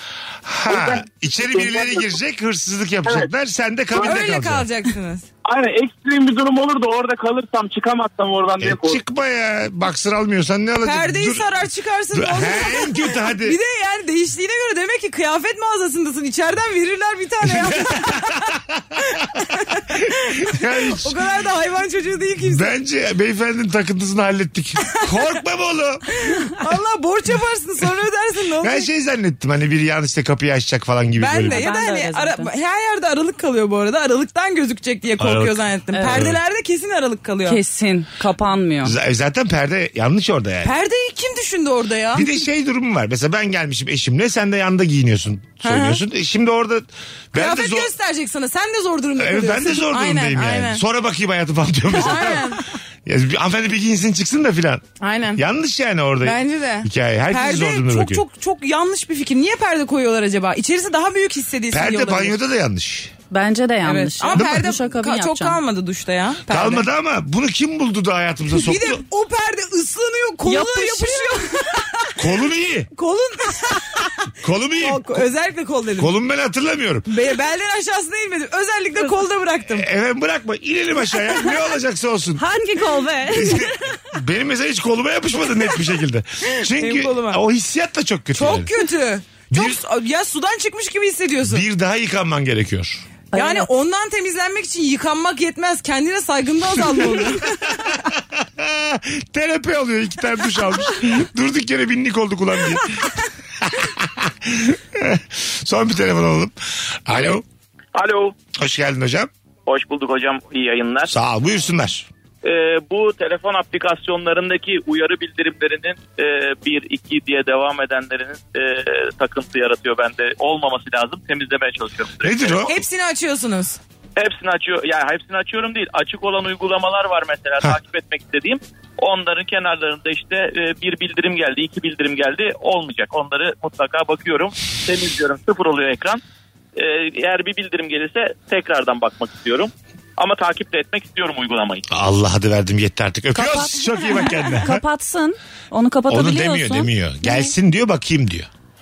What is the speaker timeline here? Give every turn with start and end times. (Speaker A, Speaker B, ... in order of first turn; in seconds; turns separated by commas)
Speaker A: 0.5-4.7, Speaker B: 0.7-2.0, Speaker C: 4.0-5.3, Speaker B: 5.5-9.0, Speaker A: 8.6-11.5, Speaker C: 10.8-22.7, Speaker A: 12.1-13.6, Speaker A: 17.4-19.0, Speaker A: 19.9-21.2, Speaker A: 22.4-26.1, Speaker C: 26.2-28.9, Speaker A: 28.6-31.7, Speaker C: 31.2-37.6, Speaker D: 31.5-32.5, Speaker A: 35.2-36.4, Speaker D: 35.9-36.3, Speaker D: 37.5-39.0, Speaker A: 38.8-40.7, Speaker C: 40.6-42.3, Speaker A: 42.1-47.9, Speaker C: 45.6-46.0, Speaker C: 47.3-50.8, Speaker A: 49.2-54.9, Speaker C: 51.9-52.6, Speaker C: 55.0-55.4, Speaker A: 55.4-58.2, Speaker C: 56.2-62.4, Speaker A: 61.7-63.1, Speaker D: 63.3-65.6, Speaker C: 63.8-66.9, Speaker A: 64.3-64.7, Speaker A: 66.5-69.0, Speaker C: 68.6-72.2, Speaker D: 70.5-71.5, Speaker A: 72.2-72.9, Speaker C: 73.0-74.1, Speaker A: 74.4-75.2, Speaker C: 74.8-76.1, Speaker A: 76.0-77.1, Speaker C: 77.1-79.9, Speaker A: 79.7-82.4, Speaker D: 82.4-83.9, Speaker A: 83.3-88.7, Speaker C: 86.5-87.4, Speaker C: 88.4-91.7, Speaker A: 89.5-89.8, Speaker A: 91.4-93.0, Speaker D: 93.3-93.7, Speaker C: 93.3-97.7, Speaker A: 97.0-97.6, Speaker A: 98.3-102.9, Speaker A: 103.6-106.5, Speaker A: 107.1-107.4, Speaker E: 108.0-108.3, Speaker A: 108.5-109.3, Speaker E: 109.7-111.1, Speaker A: 111.1-112.1, Speaker E: 112.4-122.7, Speaker A: 122.2-122.7, Speaker C: 122.7-123.8, Speaker E: 124.2-136.2, Speaker E: 136.8-141.8, Speaker A: 141.9-144.8, Speaker D: 143.3-147.5, Speaker A: 146.1-148.5